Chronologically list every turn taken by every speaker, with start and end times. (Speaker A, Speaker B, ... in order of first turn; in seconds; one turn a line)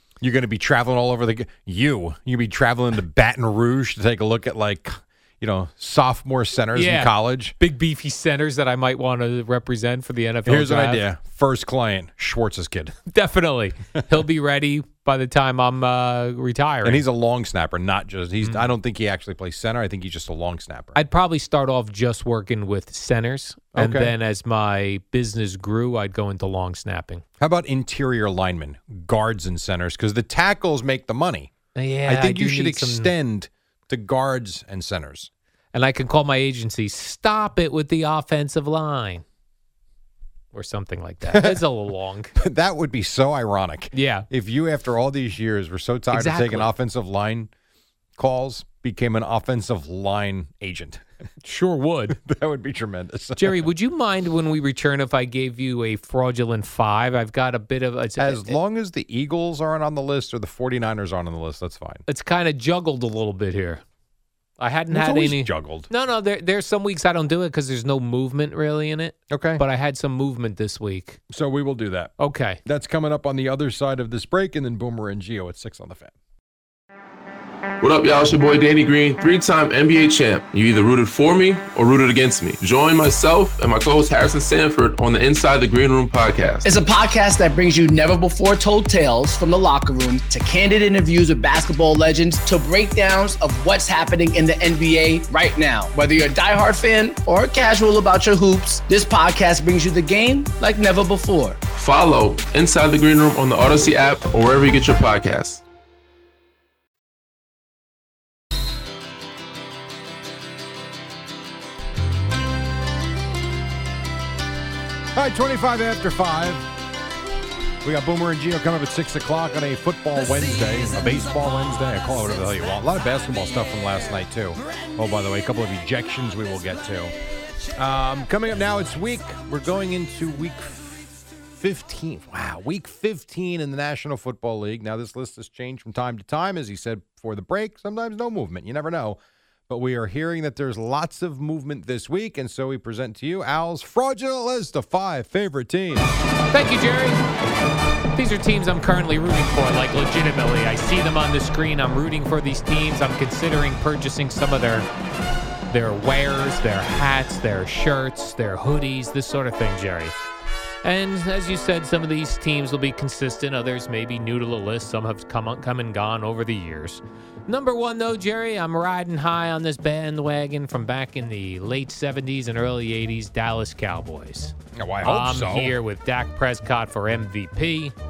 Speaker A: 0.2-7.5
Speaker B: 6.7-11.0
Speaker A: 10.5-13.0
Speaker B: 13.1-17.0
Speaker A: 16.8-21.0
Speaker B: 18.4-18.7
Speaker B: 20.9-27.2
Speaker A: 23.7-24.1
Speaker A: 27.4-31.5
Speaker B: 31.8-33.1
Speaker A: 32.1-35.3
Speaker B: 35.7-39.2
Speaker B: 40.5-42.4
Speaker A: 41.3-41.6
Speaker A: 42.4-47.5
Speaker B: 43.9-44.3
Speaker B: 46.1-46.7
Speaker A: 48.2-51.0
Speaker B: 51.4-52.2
Speaker A: 52.1-53.6
Speaker B: 53.4-58.6
Speaker A: 58.2-62.0
Speaker B: 62.1-63.8
Speaker B: 64.6-71.2
Speaker A: 64.9-65.9
Speaker A: 69.3-69.6
Speaker A: 71.3-72.1
Speaker B: 72.2-72.6
Speaker A: 72.7-76.1
Speaker C: 77.8-86.8
Speaker D: 86.7-101.6
Speaker C: 101.7-105.6
Speaker A: 115.1-116.7
Speaker A: 117.8-127.1
Speaker A: 127.7-146.1
Speaker B: 146.5-147.2
Speaker B: 148.2-154.9
Speaker B: 155.7-160.1
Speaker B: 160.8-177.9
Speaker A: 174.7-175.8